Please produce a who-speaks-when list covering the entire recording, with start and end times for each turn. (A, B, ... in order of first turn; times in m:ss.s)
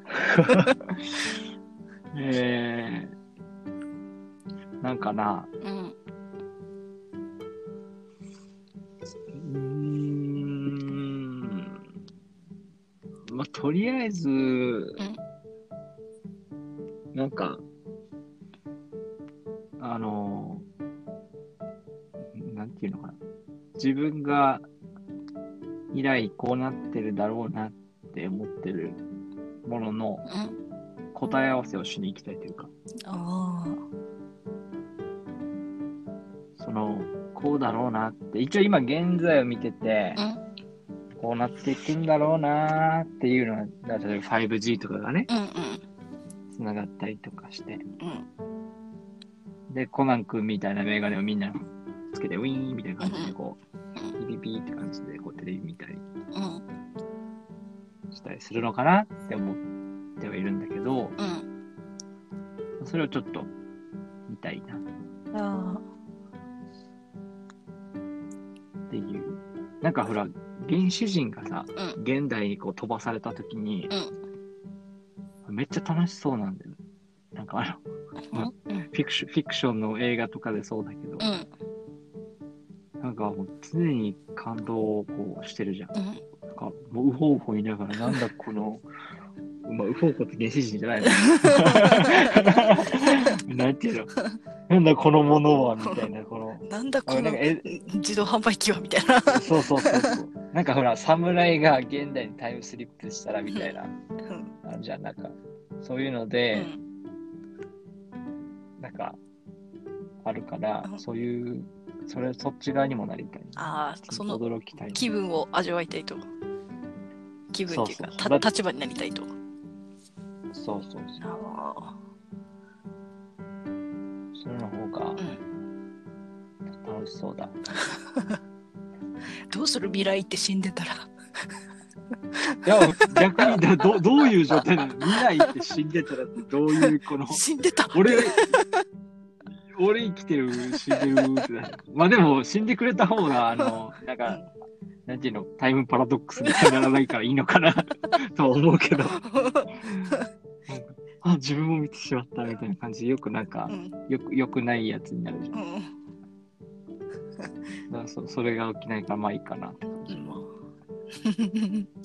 0:00.3-0:00.6 A
0:00.4-0:00.7 B
0:02.1-0:03.1 A
0:04.8-0:05.5 A
0:05.6-0:05.9 B
0:09.3-0:11.8 A
0:13.3-0:15.0 A
0:17.1-0:17.6 A
0:19.8-0:20.6 A
0:22.3-0:23.2 A
0:23.8-0:24.6 A
0:25.9-0:29.0 A
0:29.6-0:30.2 A
0:30.2-0:30.6 B
0:31.1-0:32.7 A
0:33.1-0:33.8 B
0:36.6-0:40.2 A
0:41.2-0:45.3 A
0:45.3-0:45.8 B
0:46.5-0:47.8 A
0:48.0-0:48.2 B
0:49.7-0:53.6 A
0:53.0-0:53.3 B
0:54.2-0:56.0 A
0:56.3-0:56.6 B
0:58.1-0:59.6 A
1:00.2-1:01.2 A
1:01.2-1:01.4 B
1:02.8-1:03.5 A
1:04.3-1:04.8 A
1:05.3-1:05.8 B
1:08.9-1:13.9 A
1:15.4-1:16.8 A
1:17.3-1:17.8 A
1:18.3-1:18.9 B
1:18.3-1:21.4 A
1:21.2-1:21.5 B
1:23.0-1:25.9 A
1:25.9-1:26.2 B
1:26.5-1:28.8 A
1:29.6-1:34.1 A
1:31.0-1:33.2 B
1:34.7-1:37.7 A
1:35.8-1:36.1 B
1:36.6-1:40.1 B
1:39.3-1:43.9 A
1:43.5-1:43.7 B
1:44.2-1:44.5 B
1:44.6-1:46.7 A
1:46.5-1:46.8 B
1:48.8-1:49.2 A
1:50.2-1:55.1 A
1:53.6-1:54.4 B
1:54.9-1:56.2 B
1:57.5-1:59.3 B
1:57.7-1:58.4 A
2:00.5-2:01.2 A
2:01.2-2:01.9 B
2:04.3-2:05.2 A
2:06.8-2:07.6 A
2:09.5-2:11.1 B
2:12.5-2:13.6 B
2:12.6-2:18.4 A
2:14.2-2:15.5 B
2:16.8-2:18.8 B
2:19.7-2:24.4 A
2:20.7-2:21.4 B
2:25.1-2:29.3 A
2:26.4-2:26.9 B
2:29.0-2:30.2 B
2:29.8-2:30.1 A
2:30.7-2:35.6 A
2:33.7-2:33.9 B
2:35.5-2:35.9 B
2:37.9-2:40.4 A
2:40.1-2:40.5 B
2:41.2-2:41.9 B